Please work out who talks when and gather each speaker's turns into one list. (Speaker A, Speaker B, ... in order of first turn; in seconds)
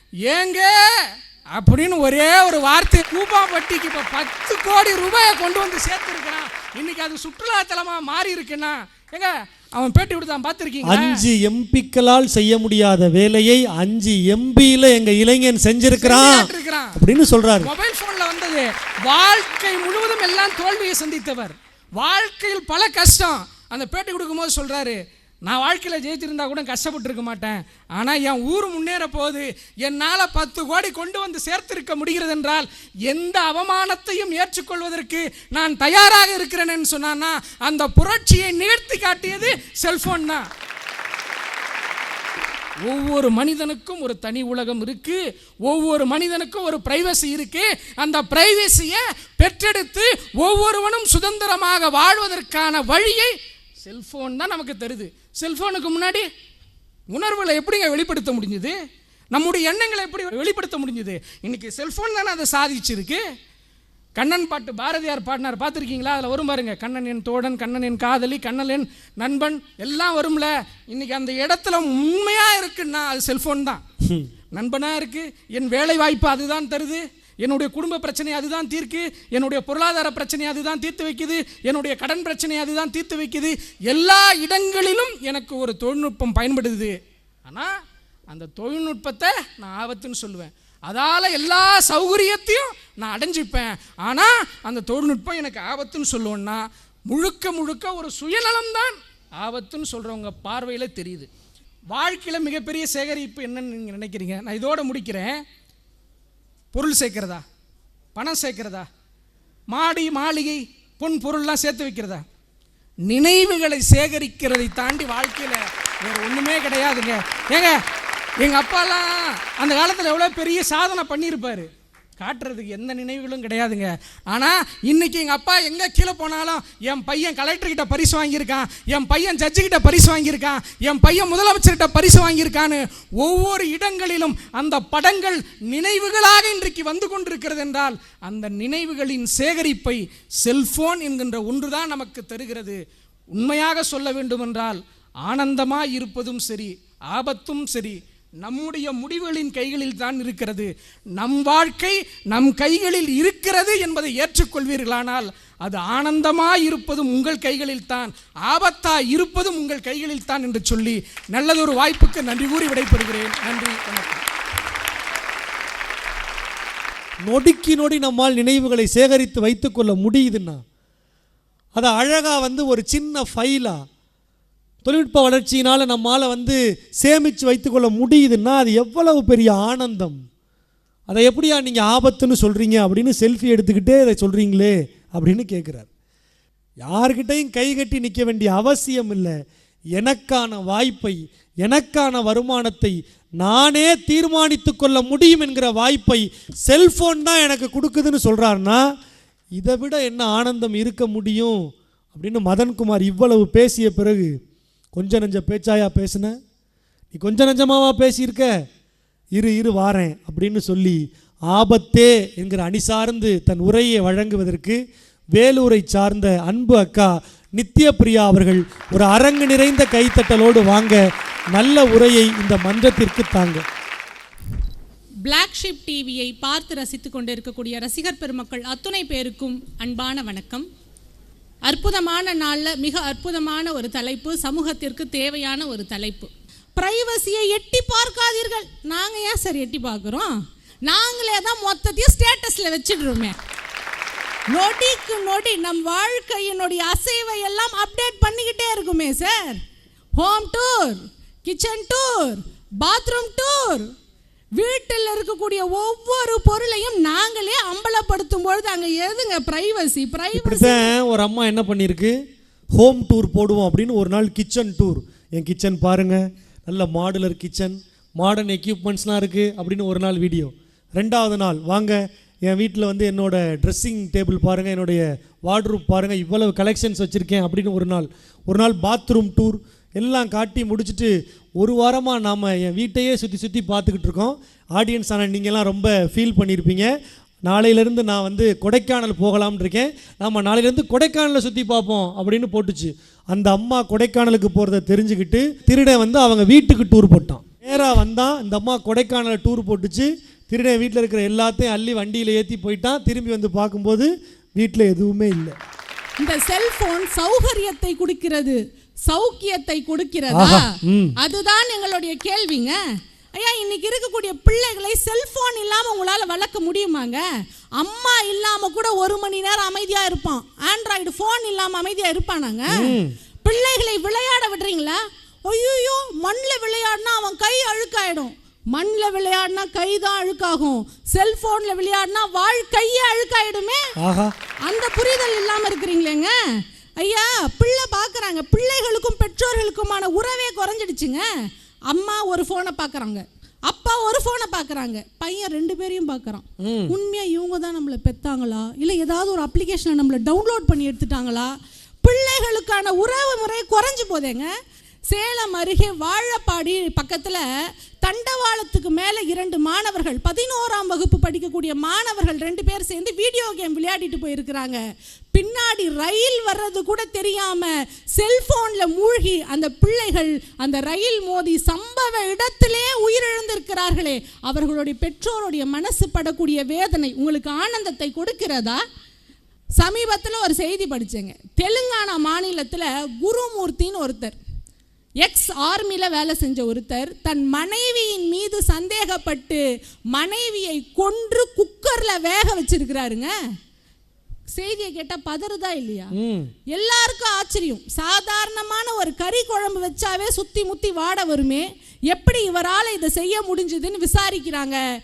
Speaker A: 0.2-11.2, 16.0-17.0, 17.6-40.5, 42.8-56.3, 57.1-58.8, 59.3-63.2, 64.2-73.8, 74.5-87.7, 88.3-101.3, 101.9-105.4, 106.7-107.4, 108.2-108.9, 109.7-112.2, 113.1-117.8, 118.4-121.7, 122.2-142.8, 143.3-164.2
Speaker B: 10.8-17.7, 167.2-170.6, 171.8-173.8, 174.8-180.2, 181.1-185.9, 186.8-189.3, 190.0-198.8, 199.6-201.6, 202.1-204.3, 205.0-206.3, 207.1-208.5, 209.4-214.8, 215.3-223.6, 260.3-262.2, 262.8-286.9, 287.5-305.6, 310.3-311.2, 322.7-323.1, 334.0-334.3, 346.6-346.9, 396.1-396.5
Speaker C: 225.2-230.7, 231.7-243.4, 244.5-249.6, 250.2-253.9, 254.6-260.9, 306.2-312.8, 313.4-317.2, 317.8-333.8, 334.7-354.5, 355.1-357.4, 358.0-364.8, 365.4-378.8, 379.8-384.4, 385.2-393.3, 394.5-396.1, 396.7-404.8